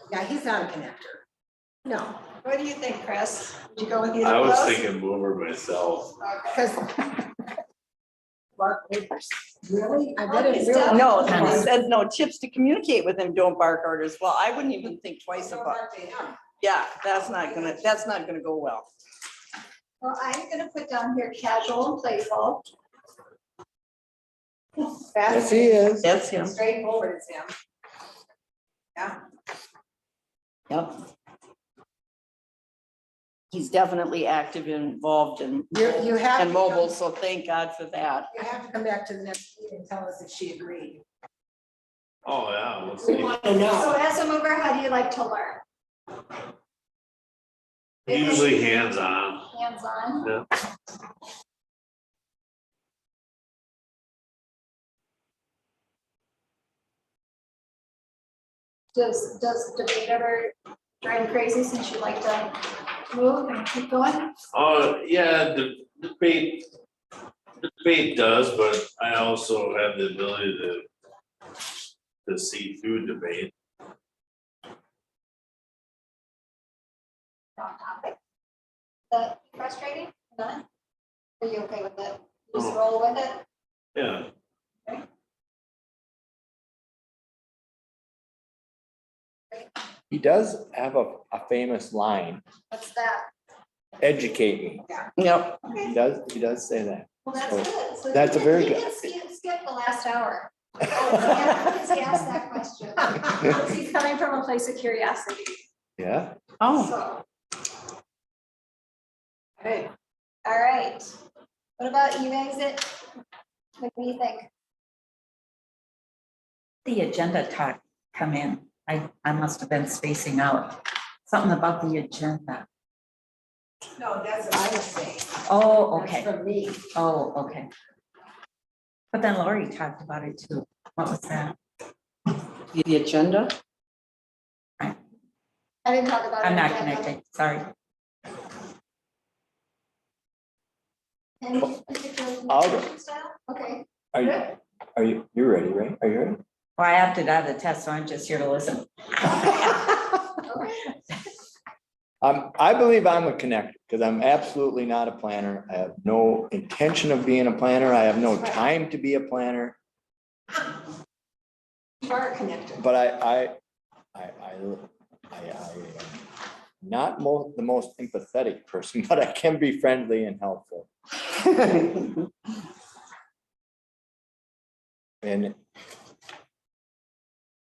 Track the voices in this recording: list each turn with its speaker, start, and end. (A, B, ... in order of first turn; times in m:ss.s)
0:00.1-0:01.2 A
0:01.8-0:02.1 A
0:02.4-0:04.7 B
0:04.2-0:06.1 C
0:06.2-0:06.6 B
0:08.6-0:11.7 A
0:10.2-0:11.7 B
0:10.8-0:15.8 D
0:11.2-0:11.6 E
0:15.4-0:16.4 A
0:16.6-0:18.9 D
0:20.0-0:22.7 B
0:25.1-0:25.7 A
0:25.3-0:26.0 F
0:26.0-0:26.6 D
0:26.5-0:26.9 B
0:26.9-0:27.5 A
0:30.7-0:31.0 D
0:33.5-0:38.3 D
0:35.7-0:36.9 A
0:38.3-0:41.0 A
0:42.2-0:43.6 C
0:43.0-0:43.8 A
0:43.6-0:45.6 B
0:48.1-0:49.5 C
0:48.1-0:50.3 B
0:58.9-1:04.3 B
1:04.5-1:06.6 C
1:07.6-1:10.9 C
1:12.2-1:13.5 C
1:17.6-1:18.2 B
1:19.1-1:20.6 B
1:21.4-1:23.4 B
1:22.5-1:22.8 C
1:23.9-1:24.3 C
1:30.1-1:32.4 F
1:32.7-1:33.3 B
1:34.0-1:34.9 F
1:35.2-1:35.6 D
1:35.8-1:38.9 F
1:37.2-1:45.6 B
1:46.0-1:46.4 F
1:46.6-1:46.9 D
1:46.7-1:47.2 B
1:49.6-1:49.9 A
1:50.4-1:51.1 B
1:51.8-1:52.9 B
1:53.8-1:54.5 B
1:56.8-2:02.6 E
2:04.0-2:05.2 A
2:05.4-2:06.3 E
2:05.9-2:06.8 A
2:06.9-2:07.7 E
2:09.1-2:11.5 E
2:12.7-2:13.5 D
2:15.8-2:17.1 B
2:16.4-2:17.7 E
2:21.4-2:24.4 B
2:22.5-2:22.9 F
2:24.1-2:26.4 F
2:26.8-2:30.2 E
2:30.4-2:30.9 B
2:32.2-2:39.8 F
2:42.8-2:43.6 F
2:44.1-2:46.2 F
2:46.8-2:50.9 F
2:55.2-2:55.6 F